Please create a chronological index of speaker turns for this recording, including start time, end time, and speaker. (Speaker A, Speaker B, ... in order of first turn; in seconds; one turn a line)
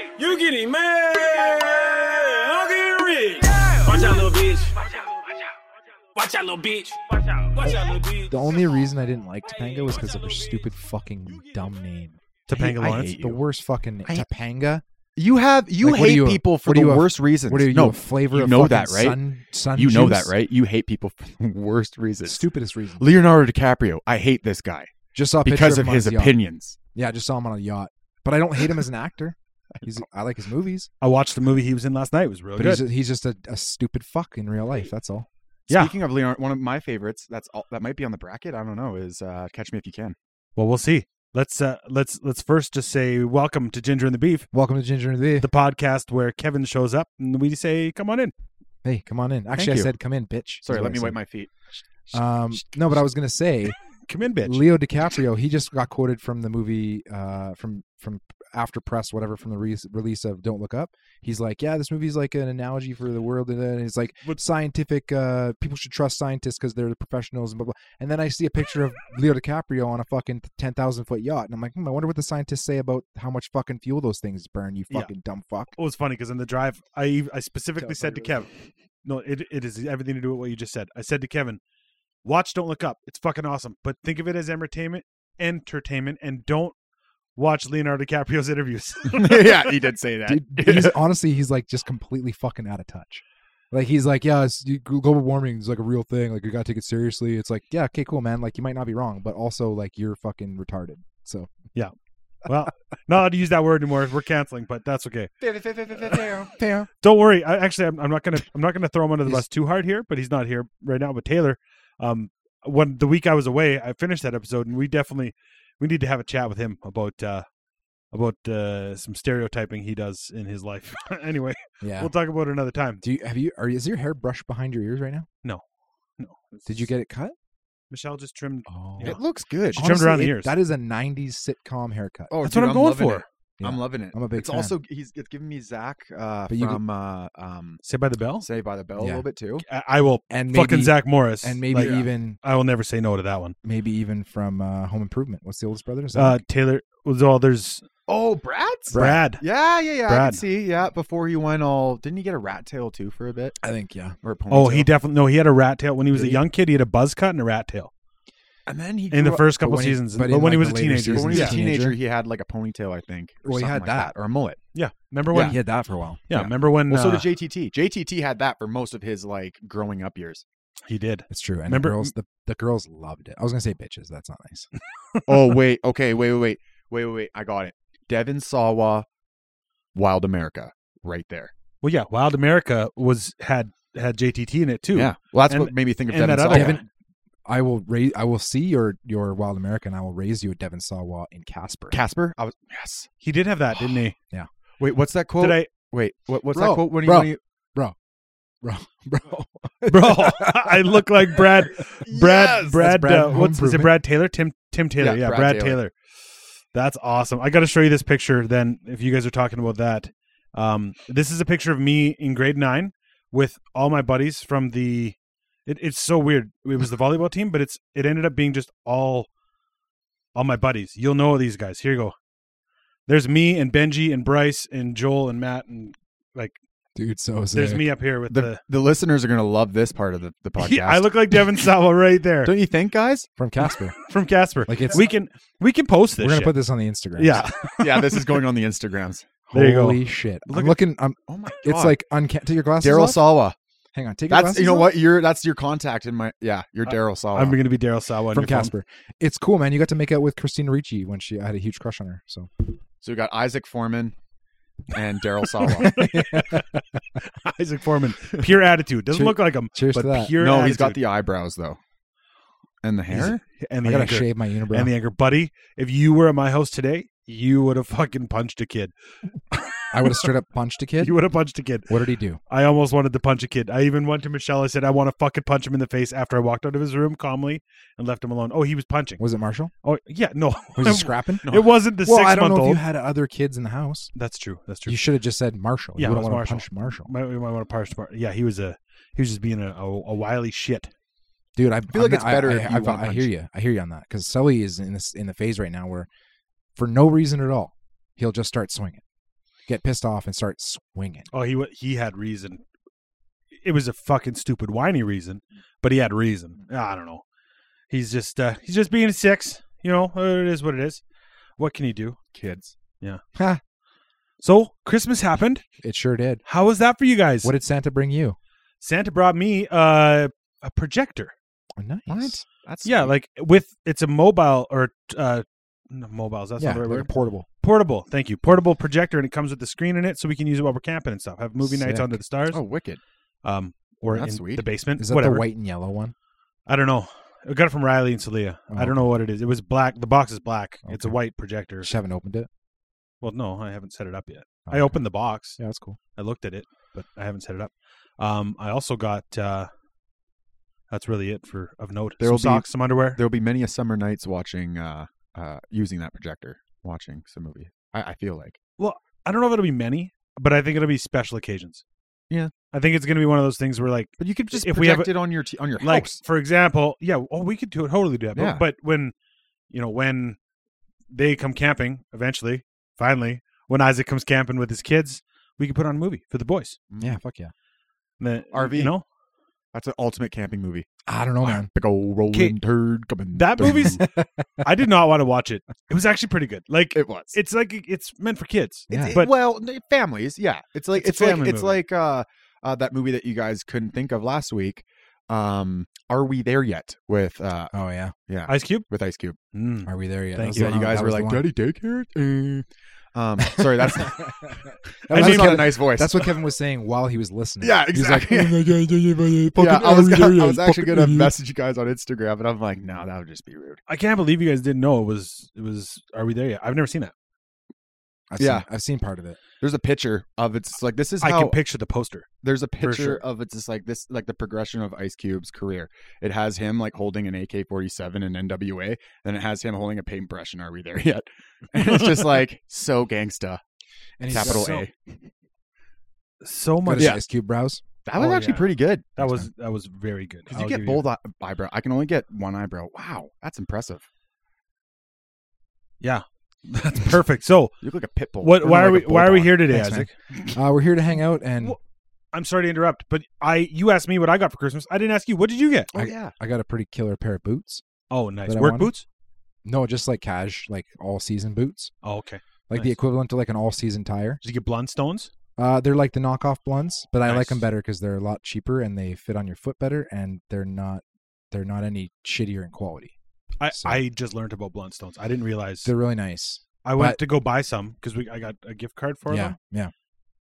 Speaker A: 0.1-4.7
Speaker A: 6.2-6.9
Speaker A: 7.6-8.2
Speaker B: 7.6-12.2
Speaker C: 12.5-13.2
Speaker D: 12.5-13.4
Speaker B: 13.1-14.8
Speaker D: 15.2-19.2
Speaker B: 15.8-20.4
Speaker D: 19.7-22.4
Speaker B: 22.2-23.1
Speaker D: 23.0-24.9
Speaker B: 25.1-26.4
Speaker D: 25.4-26.8
Speaker B: 26.9-30.9
Speaker C: 31.0-32.8
Speaker B: 32.6-35.3
Speaker C: 35.7-36.0
Speaker D: 35.7-40.2
Speaker C: 40.5-44.5
Speaker B: 44.5-45.5
Speaker C: 45.4-48.3
Speaker B: 48.8-51.2
Speaker D: 49.5-49.9
Speaker D: 50.6-51.5
Speaker B: 52.1-53.8
Speaker C: 54.1-54.6
Speaker B: 54.4-75.7
Speaker C: 75.8-78.5
Speaker B: 77.8-78.5
Speaker C: 79.0-81.6
Speaker C: 82.2-86.8
Speaker C: 87.4-89.6
Speaker D: 89.1-91.0
Speaker B: 90.3-101.5
Speaker C: 102.5-105.3
Speaker B: 105.4-106.9
Speaker D: 106.0-106.5
Speaker C: 107.0-117.5
Speaker C: 118.1-123.0
Speaker B: 121.8-122.1
Speaker B: 123.0-125.3
Speaker C: 126.2-126.9
Speaker B: 126.7-127.3
Speaker C: 127.9-129.2
Speaker B: 128.7-129.2
Speaker D: 129.0-129.9
Speaker C: 129.8-130.5
Speaker B: 129.8-132.3
Speaker D: 132.3-137.8
Speaker C: 132.4-133.2
Speaker B: 133.6-134.8
Speaker B: 136.5-136.8
Speaker C: 137.8-138.5
Speaker D: 138.4-139.7
Speaker B: 139.0-139.2
Speaker C: 139.7-143.5
Speaker B: 140.3-142.4
Speaker D: 141.8-142.1
Speaker B: 143.6-146.4
Speaker C: 146.2-147.8
Speaker D: 148.1-153.6
Speaker B: 148.9-149.2
Speaker C: 148.9-149.4
Speaker C: 150.1-150.4
Speaker B: 153.6-154.2
Speaker D: 154.2-154.9
Speaker C: 154.5-157.9
Speaker B: 156.1-156.4
Speaker D: 158.7-159.5
Speaker C: 159.1-161.6
Speaker B: 159.6-162.0
Speaker D: 161.1-164.6
Speaker B: 163.4-164.1
Speaker C: 164.8-165.6
Speaker D: 165.3-165.6
Speaker B: 165.3-166.3
Speaker C: 166.3-167.3
Speaker D: 166.3-170.4
Speaker C: 170.9-172.1
Speaker B: 171.3-174.7
Speaker D: 175.3-179.1
Speaker D: 179.9-181.5
Speaker C: 181.8-186.8
Speaker D: 184.9-186.8
Speaker B: 186.5-186.8
Speaker B: 187.5-192.0
Speaker D: 191.9-193.1
Speaker C: 193.2-194.2
Speaker D: 194.8-197.4
Speaker C: 195.4-195.7
Speaker B: 196.5-197.9
Speaker B: 198.6-201.4
Speaker C: 199.9-205.9
Speaker D: 202.1-202.6
Speaker B: 202.5-204.0
Speaker D: 205.0-205.8
Speaker C: 206.7-219.3
Speaker C: 220.3-222.2
Speaker C: 223.1-226.6
Speaker B: 226.9-227.9
Speaker C: 227.5-228.6
Speaker D: 228.3-231.3
Speaker C: 230.6-232.5
Speaker D: 232.4-233.3
Speaker B: 233.4-234.0
Speaker C: 234.1-236.6
Speaker B: 234.7-235.1
Speaker B: 236.2-237.4
Speaker C: 237.2-238.2
Speaker D: 237.8-239.3
Speaker B: 239.5-243.4
Speaker C: 239.5-240.8
Speaker D: 241.3-242.0
Speaker D: 242.8-243.6
Speaker B: 243.9-244.9
Speaker D: 244.3-247.6
Speaker C: 246.8-248.7
Speaker B: 248.3-252.5
Speaker D: 253.0-254.2
Speaker D: 254.9-256.0
Speaker C: 255.7-256.7
Speaker B: 255.8-256.7
Speaker C: 257.2-261.0
Speaker B: 259.1-260.4
Speaker D: 260.4-261.8
Speaker D: 262.8-263.4
Speaker C: 263.5-268.9
Speaker B: 263.8-264.9
Speaker B: 269.9-271.1
Speaker C: 271.0-271.9
Speaker B: 271.9-272.4
Speaker C: 272.5-279.2
Speaker B: 279.2-279.7
Speaker C: 279.8-282.8
Speaker B: 280.8-284.1
Speaker D: 281.4-281.7
Speaker C: 284.1-285.0
Speaker B: 284.9-287.1
Speaker C: 286.0-290.9
Speaker B: 291.6-296.1
Speaker D: 291.9-293.3
Speaker B: 296.8-299.0
Speaker B: 299.7-301.3
Speaker C: 301.3-302.6
Speaker C: 303.6-307.2
Speaker C: 307.9-311.0
Speaker C: 311.6-312.2
Speaker D: 312.3-312.7
Speaker B: 313.3-313.6
Speaker C: 314.4-315.6
Speaker B: 315.8-316.4
Speaker C: 316.4-317.5
Speaker B: 317.4-318.4
Speaker C: 318.8-321.3
Speaker B: 321.8-322.4
Speaker D: 322.1-323.1
Speaker C: 322.8-327.1
Speaker B: 326.6-327.5
Speaker C: 327.6-332.6
Speaker B: 331.6-332.2
Speaker D: 332.5-333.0
Speaker C: 333.4-335.4
Speaker D: 334.1-334.6
Speaker B: 335.0-336.1
Speaker C: 336.6-341.9
Speaker B: 338.7-339.0
Speaker B: 340.8-341.2
Speaker B: 341.8-342.5
Speaker C: 343.2-345.6
Speaker B: 344.6-346.0
Speaker C: 346.1-349.7
Speaker C: 350.9-353.2
Speaker D: 352.2-358.6
Speaker C: 358.8-361.8
Speaker C: 362.7-365.2
Speaker D: 364.2-366.2
Speaker C: 365.8-369.1
Speaker D: 368.3-368.6
Speaker C: 369.7-370.4
Speaker C: 371.1-376.8
Speaker D: 376.9-377.1
Speaker B: 377.0-377.5
Speaker C: 378.2-379.0
Speaker D: 378.5-378.9
Speaker D: 379.7-380.9
Speaker B: 381.1-381.7
Speaker D: 381.4-384.0
Speaker C: 383.3-384.0
Speaker B: 383.6-384.4
Speaker C: 384.6-389.3
Speaker D: 386.9-387.4
Speaker B: 388.9-389.2
Speaker D: 388.9-397.7
Speaker C: 390.9-391.8
Speaker B: 397.7-398.1
Speaker D: 398.3-399.4
Speaker C: 398.5-398.9
Speaker C: 399.5-400.8
Speaker B: 399.9-401.4
Speaker D: 400.5-406.3
Speaker B: 403.6-411.3
Speaker C: 405.1-405.7
Speaker D: 407.6-408.6
Speaker D: 409.6-413.8
Speaker C: 413.9-417.1
Speaker B: 418.3-419.4
Speaker D: 418.4-418.7
Speaker D: 419.6-421.6
Speaker C: 421.2-422.3
Speaker D: 422.4-433.6
Speaker C: 422.8-423.2
Speaker B: 434.2-434.8
Speaker D: 434.3-434.9
Speaker C: 434.3-434.8
Speaker C: 436.4-437.2
Speaker B: 436.8-437.8
Speaker D: 438.0-439.4
Speaker C: 438.2-441.1
Speaker D: 440.5-444.0
Speaker C: 446.0-447.7
Speaker D: 447.8-449.4
Speaker C: 448.4-450.1
Speaker B: 448.7-451.8
Speaker C: 452.3-455.9
Speaker D: 455.9-456.3
Speaker B: 455.9-457.8
Speaker C: 458.1-459.0
Speaker B: 458.4-458.9
Speaker B: 459.6-461.9
Speaker C: 462.0-463.0
Speaker B: 462.7-464.4
Speaker C: 464.4-465.3
Speaker B: 465.6-473.1
Speaker C: 467.2-467.6
Speaker C: 473.6-475.9
Speaker B: 473.7-474.0
Speaker B: 475.8-477.2
Speaker C: 476.8-479.5
Speaker B: 479.3-479.9